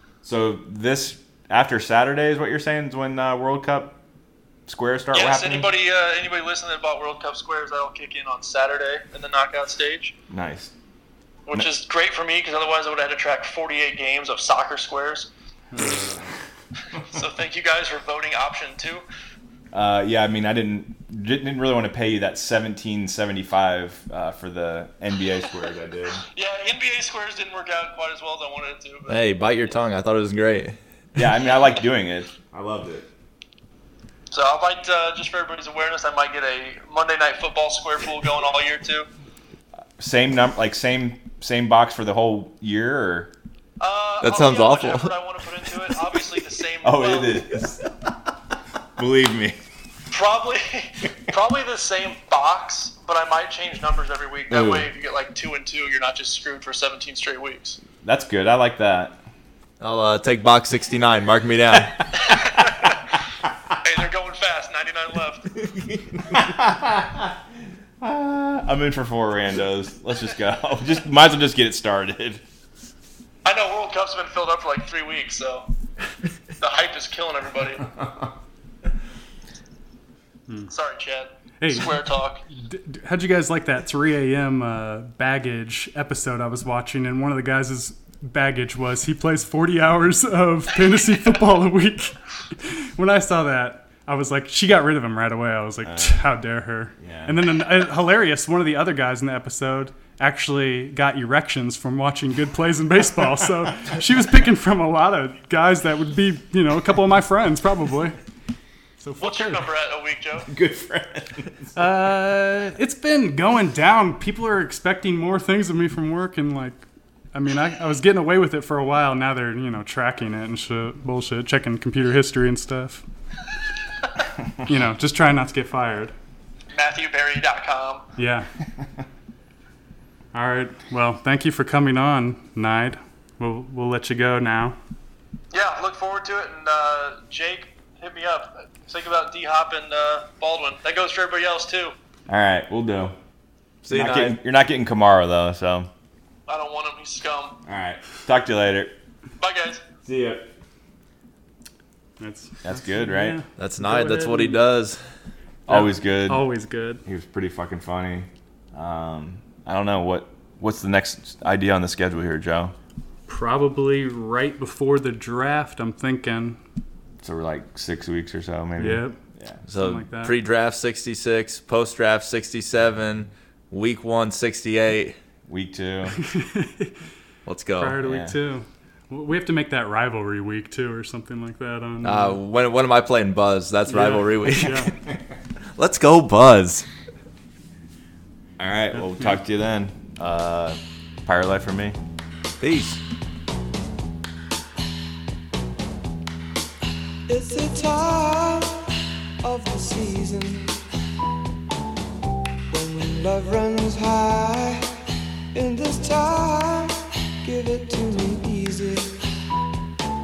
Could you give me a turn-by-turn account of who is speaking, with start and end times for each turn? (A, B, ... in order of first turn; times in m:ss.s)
0:00.2-0:04.0 A
0:04.7-0:05.7 A
0:05.1-0:10.2 B
0:10.3-0:10.7 A
0:11.5-0:15.3 B
0:17.0-0:19.0 B
0:19.7-0:26.2 A
0:26.4-0:29.2 B
0:29.1-0:31.2 C
0:31.2-0:33.1 A
0:34.3-0:39.1 B
0:40.0-0:43.3 A
0:43.8-0:47.4 B
0:44.2-0:45.2 C
0:46.8-0:47.9 A
0:49.0-0:49.6 A
0:50.1-0:57.8 B
0:54.5-0:54.9 A
0:58.0-0:59.2 A
0:59.8-1:02.1 C
1:02.2-1:03.0 B
1:03.8-1:05.5 B
1:06.3-1:07.3 A
1:08.0-1:12.4 A
1:13.4-1:15.7 B
1:16.6-1:17.9 B
1:20.7-1:22.4 B
1:21.6-1:48.2 D
1:35.8-1:36.2 A
1:37.0-1:37.4 A
1:49.0-1:49.7 D
1:49.2-1:50.5 B
1:50.5-1:51.7 A
1:51.8-2:03.0 D
2:04.6-2:06.1 D
2:06.7-2:08.1 B
2:08.2-2:08.5 D
2:10.3-2:14.8 D
2:15.5-2:21.9 B
2:22.3-2:23.2 A
2:23.8-2:24.4 C
2:23.9-2:25.9 A
2:26.5-2:27.6 B
2:27.7-2:28.9 A
2:29.4-2:29.8 B
2:30.0-2:30.5 A
2:32.2-2:34.6 D
2:32.6-2:33.4 A
2:33.6-2:35.0 C
2:35.7-2:36.5 A
2:35.7-2:37.0 D
2:37.0-2:42.7 A
2:43.3-2:46.6 D
2:47.2-2:49.6 A
2:48.8-2:49.2 D
2:49.7-2:55.2 C
2:49.8-2:50.4 D
2:55.5-2:56.2 A
2:56.2-2:57.0 D
2:57.5-2:58.1 C
2:57.8-3:02.4 D
2:58.1-2:58.3 A
3:02.0-3:04.9 C
3:03.9-3:04.9 D
3:05.8-3:06.9 C
3:08.6-3:12.0 A
3:08.9-3:09.4 D
3:12.6-3:13.0 C
3:17.3-3:18.7 E
3:19.4-3:20.7 E
3:22.7-3:24.8 E
3:25.6-3:29.1 E